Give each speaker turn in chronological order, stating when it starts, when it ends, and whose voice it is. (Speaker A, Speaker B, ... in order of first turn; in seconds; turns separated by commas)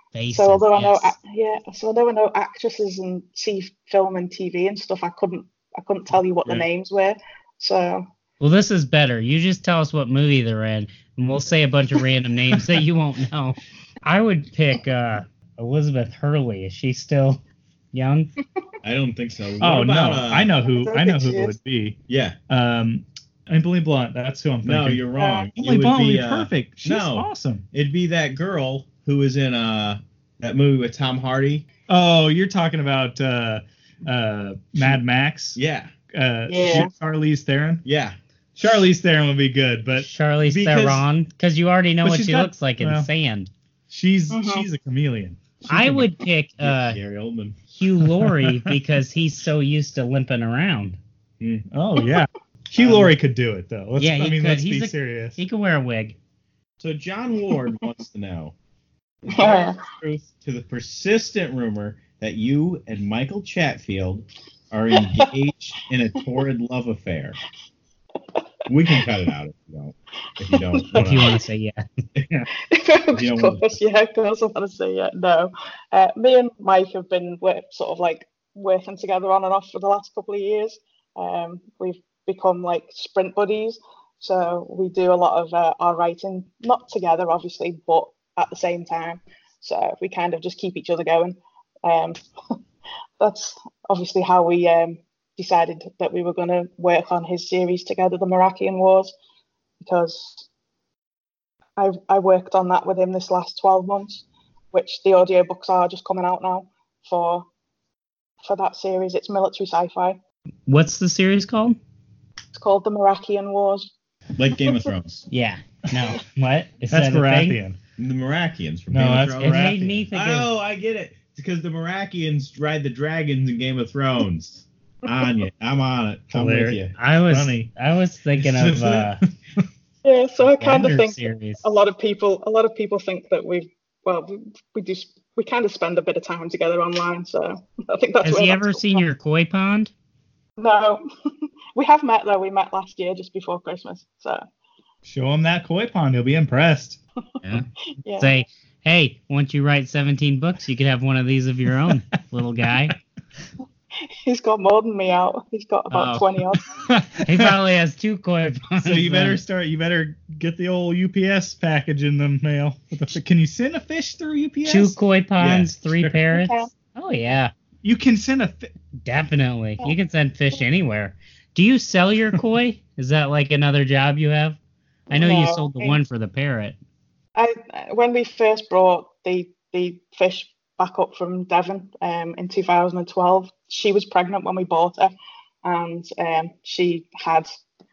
Speaker A: 0.1-1.1, Speaker B: 0.3-8.1, Speaker A: 8.4-17.4, Speaker A: 17.9-18.3, Speaker C: 18.8-20.5, Speaker D: 19.6-22.0, Speaker B: 20.6-21.6, Speaker C: 22.1-22.4, Speaker D: 22.5-25.1, Speaker C: 24.6-31.6, Speaker B: 25.1-25.5, Speaker D: 25.6-27.6, Speaker D: 31.9-35.6, Speaker C: 35.5-35.9, Speaker D: 36.1-37.8, Speaker B: 36.5-36.9, Speaker C: 37.8-38.1, Speaker D: 38.5-40.1, Speaker A: 40.0-43.5, Speaker C: 40.5-41.0, Speaker D: 42.0-43.1, Speaker D: 43.9-46.0, Speaker B: 44.3-44.6, Speaker A: 45.7-47.0, Speaker C: 46.6-47.6, Speaker A: 47.7-51.0, Speaker D: 48.0-48.7, Speaker C: 51.4-51.6, Speaker D: 51.7-55.4, Speaker C: 52.8-53.1, Speaker A: 54.0-56.1, Speaker C: 56.8-58.5, Speaker C: 59.2-67.4, Speaker B: 59.3-59.8, Speaker C: 68.7-71.3, Speaker B: 70.5-71.4, Speaker A: 70.9-72.4, Speaker B: 72.6-92.2, Speaker C: 73.1-73.7, Speaker B: 93.2-99.1, Speaker B: 99.8-100.5, Speaker B: 101.8-107.5, Speaker B: 108.4-110.2, Speaker A: 110.7-111.8, Speaker B: 112.5-113.9, Speaker C: 114.4-115.2, Speaker B: 114.6-114.9, Speaker A: 115.3-117.6, Speaker D: 116.9-117.8, Speaker C: 118.0-126.9, Speaker D: 118.9-119.9, Speaker A: 119.4-120.5, Speaker D: 126.3-127.7, Speaker A: 127.0-129.2, Speaker C: 128.4-129.1, Speaker B: 130.0-139.0, Speaker A: 130.4-131.7, Speaker A: 138.2-139.9, Speaker B: 140.6-141.0, Speaker B: 141.7-144.4, Speaker D: 145.0-147.0, Speaker B: 148.0-148.3, Speaker A: 148.2-152.9, Speaker B: 154.2-156.6, Speaker A: 155.9-156.2, Speaker D: 156.6-157.6, Speaker A: 157.2-159.4, Speaker D: 158.8-164.9, Speaker A: 164.6-167.5, Speaker C: 165.4-166.1, Speaker B: 166.3-166.7, Speaker D: 167.8-168.7, Speaker A: 169.0-174.6, Speaker B: 175.1-176.0, Speaker A: 175.1-176.8, Speaker B: 177.3-185.1, Speaker B: 185.6-187.6